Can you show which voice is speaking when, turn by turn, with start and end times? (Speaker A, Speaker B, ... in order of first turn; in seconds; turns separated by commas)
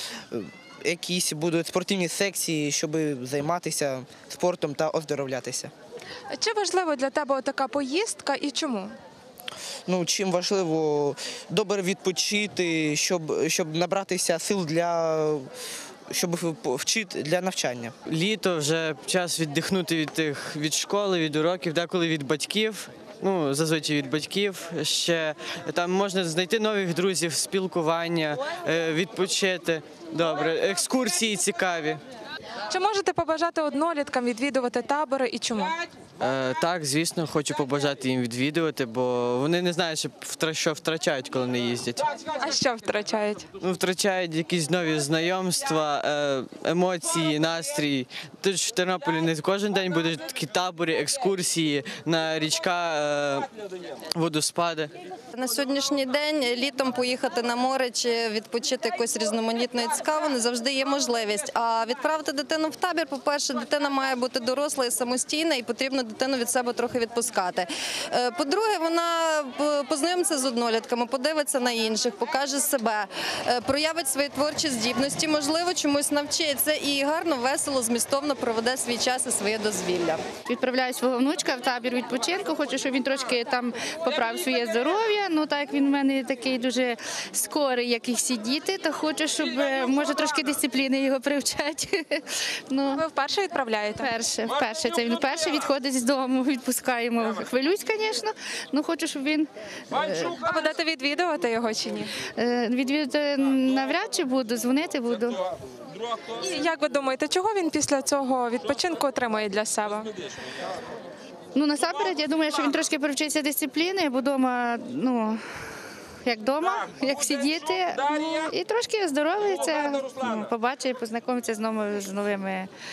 Speaker A: 0.3-5.7, Speaker B: 6.3-8.9, Speaker A: 9.9-15.5, Speaker A: 16.1-17.9, Speaker C: 18.0-32.0, Speaker B: 32.7-35.8, Speaker C: 36.2-42.0, Speaker B: 42.4-43.5, Speaker C: 43.6-53.5, Speaker C: 54.1-54.9, Speaker D: 55.3-80.3, Speaker E: 80.4-93.0, Speaker B: 92.9-94.1, Speaker E: 94.0-100.4, Speaker B: 100.4-102.2, Speaker E: 102.3-105.4, Speaker B: 106.4-110.1, Speaker E: 111.5-115.4, Speaker E: 116.2-122.7